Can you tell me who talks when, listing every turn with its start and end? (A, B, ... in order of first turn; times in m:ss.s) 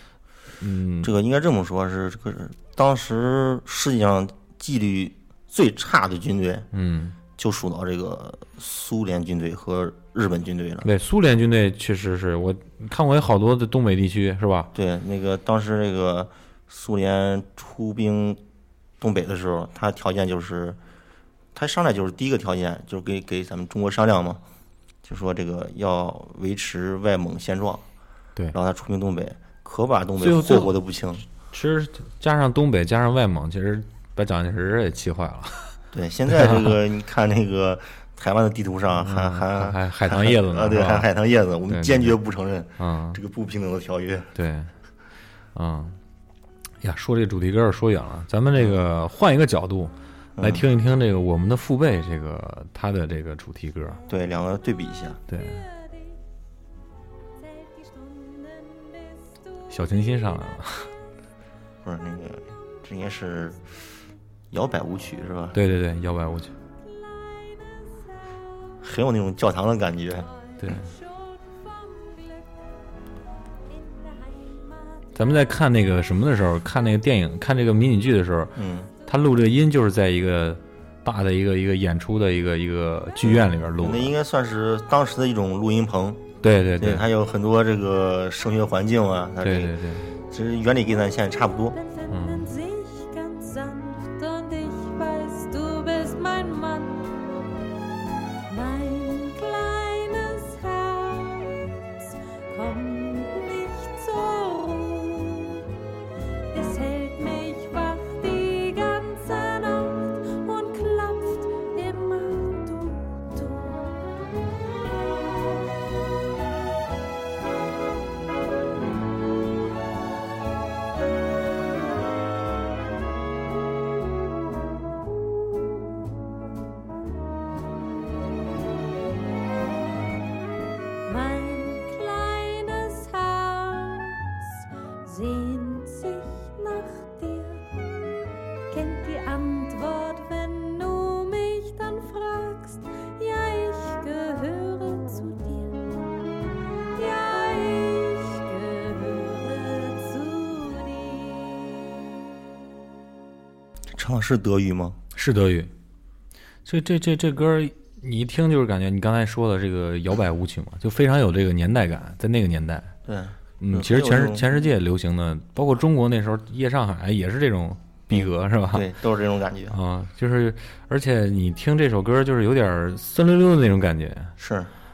0:00.6-0:01.1 A
0:01.0-0:06.7 B
0:06.7-0:07.2 A
0:07.4-0:10.9 B
0:10.8-0:14.7 A
0:14.7-0:18.4 B
0:19.0-0:20.8 B
0:21.6-0:24.4 B
0:25.0-0:27.8 B
0:28.5-0:31.2 B
0:30.2-0:30.8 A
0:31.5-0:35.7 A
0:35.9-0:44.3 B
0:39.0-0:41.1 A
0:41.7-0:42.2 A
0:42.8-0:43.2 A
0:44.4-0:44.7 A
0:45.6-0:46.0 A
0:46.8-0:54.0 A
0:50.4-0:50.6 B
0:54.1-0:55.2 B
0:55.3-0:55.6 A
0:55.3-0:56.2 C
0:57.4-0:59.4 C
0:59.7-1:00.9 A
1:01.8-1:03.6 B
1:04.5-1:05.6 B
1:05.5-1:06.5 A
1:06.8-1:08.1 C
1:08.8-1:10.3 B
1:10.6-1:12.5 C
1:10.6-1:10.9 A
1:13.7-1:15.4 C
1:15.2-1:18.5 A
1:18.6-1:18.9 B
1:19.1-1:24.1 A
1:23.2-1:26.2 B
1:26.4-1:27.1 A
1:26.8-1:29.8 B
1:29.4-1:30.1 A
1:30.3-1:31.8 B
1:31.8-1:37.2 C
1:32.1-1:32.5 A
1:38.5-1:41.7 C
1:42.5-1:45.6 C
1:46.5-1:54.0 C
2:11.1-2:17.6 C
2:18.7-2:26.1 C
2:27.0-2:31.9 C
2:33.9-2:35.0 B
2:35.2-2:35.7 A
2:36.6-2:43.0 A
2:43.1-2:44.7 B
2:43.6-2:48.9 A
2:48.1-2:49.8 B
2:49.7-2:54.4 A
2:54.4-2:54.7 B